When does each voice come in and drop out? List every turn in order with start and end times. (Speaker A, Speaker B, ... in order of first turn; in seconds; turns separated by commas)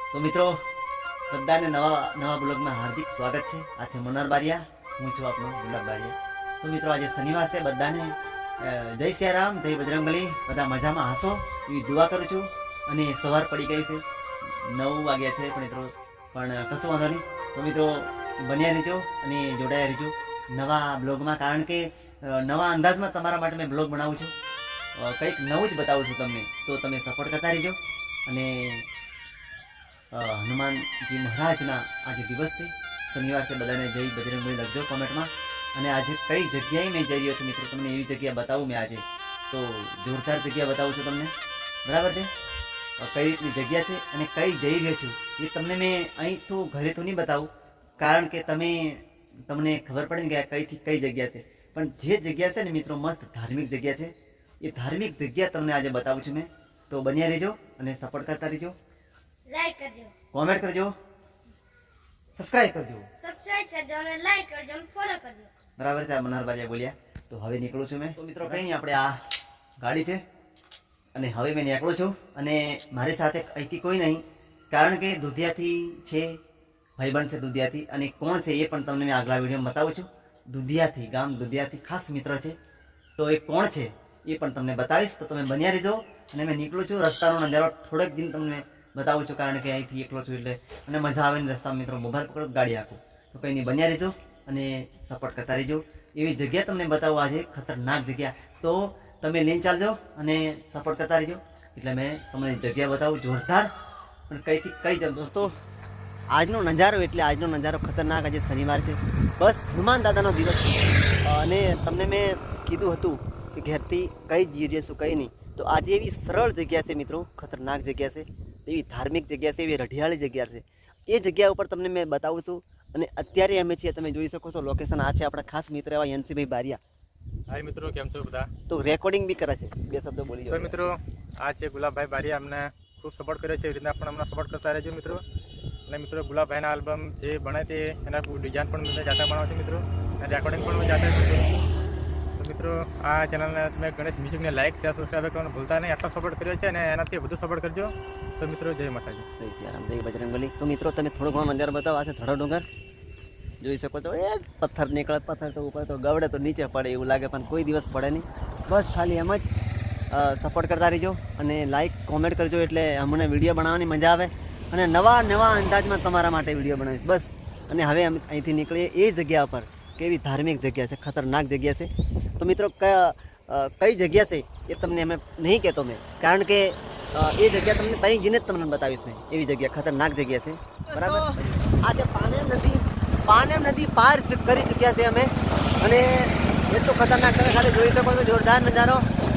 Speaker A: 0.1-0.6, Speaker A: 1.3-24.3, Speaker A: 25.0-28.9, Speaker A: 30.1-41.3, Speaker A: 41.8-42.3, Speaker A: 43.0-58.8, Speaker B: 59.5-60.1, Speaker A: 60.3-60.9, Speaker A: 62.4-63.1, Speaker B: 63.1-65.5, Speaker A: 65.8-69.2, Speaker A: 69.8-70.2, Speaker A: 71.1-76.4, Speaker A: 77.0-82.5, Speaker A: 83.2-103.7, Speaker A: 104.3-105.5, Speaker A: 106.3-126.8, Speaker C: 127.5-128.5, Speaker A: 128.7-130.9, Speaker C: 130.5-135.2, Speaker C: 135.9-141.6, Speaker C: 142.4-149.2, Speaker A: 149.4-152.7, Speaker A: 153.6-159.5, Speaker A: 160.1-189.0